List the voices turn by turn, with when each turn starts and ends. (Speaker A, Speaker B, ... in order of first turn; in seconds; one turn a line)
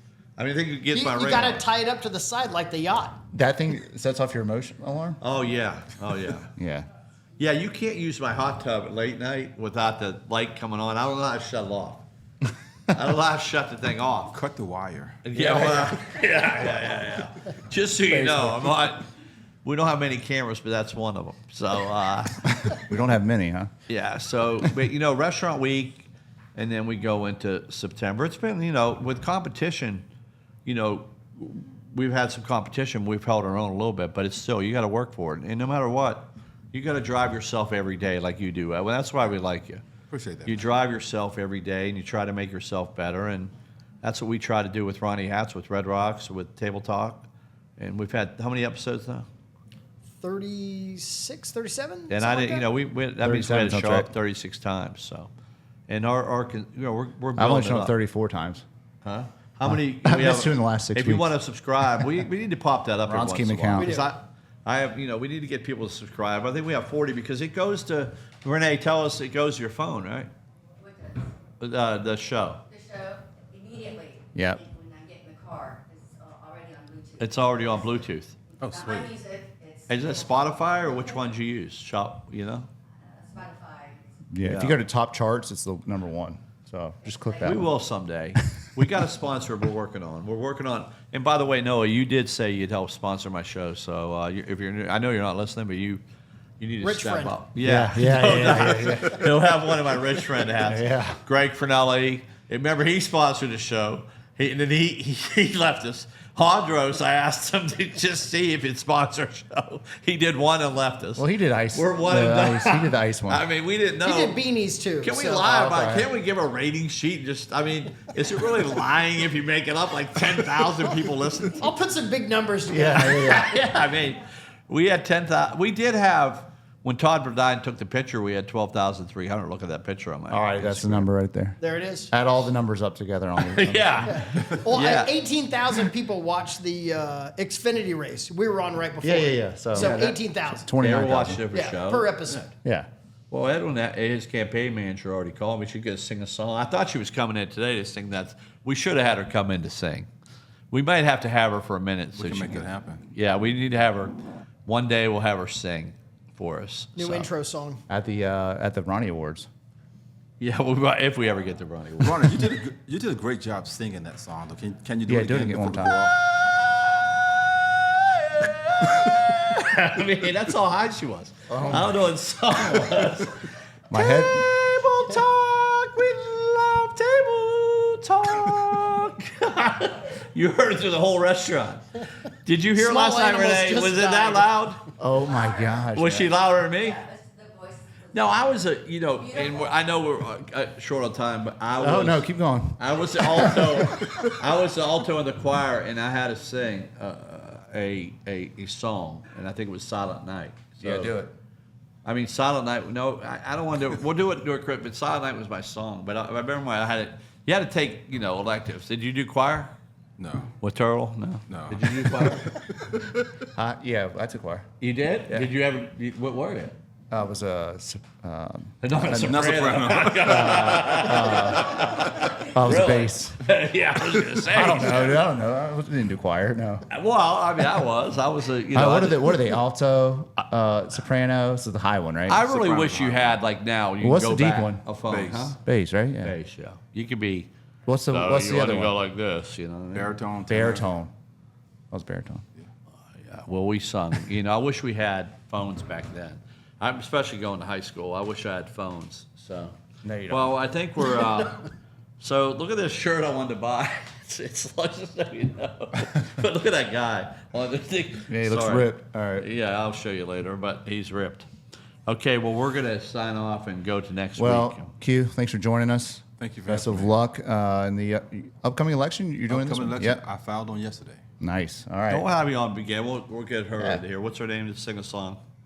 Speaker A: 0.4-1.6
Speaker B: 0.9-3.2
Speaker C: 3.3-5.2
Speaker A: 5.2-6.5
Speaker C: 6.5-6.9
Speaker A: 7.4-12.0
Speaker A: 12.9-14.4
Speaker D: 14.3-15.9
Speaker A: 15.2-19.0
Speaker C: 18.1-18.5
Speaker A: 19.6-22.4
Speaker C: 22.6-23.7
Speaker A: 23.9-30.0
Speaker A: 30.6-39.8
Speaker D: 40.1-40.7
Speaker A: 40.5-43.5
Speaker A: 44.0-49.2
Speaker B: 50.2-52.6
Speaker A: 52.1-55.3
Speaker C: 53.2-54.1
Speaker A: 55.9-57.9
Speaker C: 57.4-58.6
Speaker A: 59.0-70.3
Speaker C: 59.6-61.3
Speaker C: 63.1-64.0
Speaker B: 63.8-64.1
Speaker E: 70.8-71.3
Speaker A: 71.6-72.6
Speaker E: 72.7-77.6
Speaker C: 74.3-74.6
Speaker A: 77.2-78.4
Speaker E: 78.5-80.5
Speaker D: 78.6-79.2
Speaker A: 79.9-82.7
Speaker E: 83.1-84.0
Speaker C: 84.3-87.7
Speaker A: 84.4-84.8
Speaker E: 87.1-87.6
Speaker A: 87.4-96.0
Speaker A: 96.6-114.4
Speaker B: 96.8-97.4
Speaker C: 97.6-99.3
Speaker C: 100.6-101.2
Speaker C: 111.2-113.4
Speaker B: 114.0-115.7
Speaker A: 115.0-121.7
Speaker C: 115.5-116.1
Speaker B: 121.6-123.4
Speaker C: 122.7-123.6
Speaker A: 123.0-131.1
Speaker C: 130.3-131.6
Speaker B: 131.6-132.1
Speaker C: 132.1-134.2
Speaker A: 133.4-135.1
Speaker B: 134.1-140.7
Speaker C: 139.0-141.4
Speaker A: 140.8-142.5
Speaker B: 141.5-142.5
Speaker A: 143.3-150.1
Speaker A: 150.7-157.2
Speaker D: 152.1-153.0
Speaker B: 156.9-157.8
Speaker C: 157.9-159.5
Speaker A: 160.4-162.4
Speaker D: 162.0-166.1
Speaker C: 165.1-166.0
Speaker A: 166.1-173.4
Speaker C: 171.5-171.9
Speaker C: 173.9-174.5
Speaker A: 173.9-184.9
Speaker B: 182.7-184.5
Speaker C: 185.0-186.3
Speaker A: 185.9-187.0
Speaker E: 186.8-188.5
Speaker A: 188.1-192.2
Speaker C: 191.8-194.1
Speaker A: 192.8-201.1
Speaker C: 200.8-201.3
Speaker A: 202.0-209.8
Speaker D: 210.2-210.5
Speaker A: 210.6-212.6
Speaker D: 211.5-213.0
Speaker C: 213.5-214.7
Speaker A: 214.8-216.8
Speaker C: 217.1-219.4
Speaker A: 218.8-225.2
Speaker D: 219.1-220.8
Speaker C: 220.1-221.8
Speaker C: 222.4-223.4
Speaker C: 224.5-226.8
Speaker A: 226.9-229.4
Speaker C: 228.7-233.0
Speaker A: 232.3-235.6
Speaker D: 232.5-233.3
Speaker C: 234.0-234.8
Speaker D: 235.1-235.6
Speaker C: 235.6-236.3
Speaker A: 236.2-237.5
Speaker C: 237.9-238.9
Speaker A: 238.1-240.1
Speaker D: 239.9-240.9
Speaker C: 240.5-241.1
Speaker C: 241.9-242.4
Speaker A: 243.2-249.8
Speaker C: 250.0-250.5
Speaker A: 250.3-251.7
Speaker A: 252.2-261.5
Speaker C: 258.3-259.5
Speaker A: 262.1-264.9
Speaker C: 264.4-270.2
Speaker D: 266.4-267.1
Speaker D: 269.5-271.2
Speaker C: 271.4-272.3
Speaker A: 272.1-275.4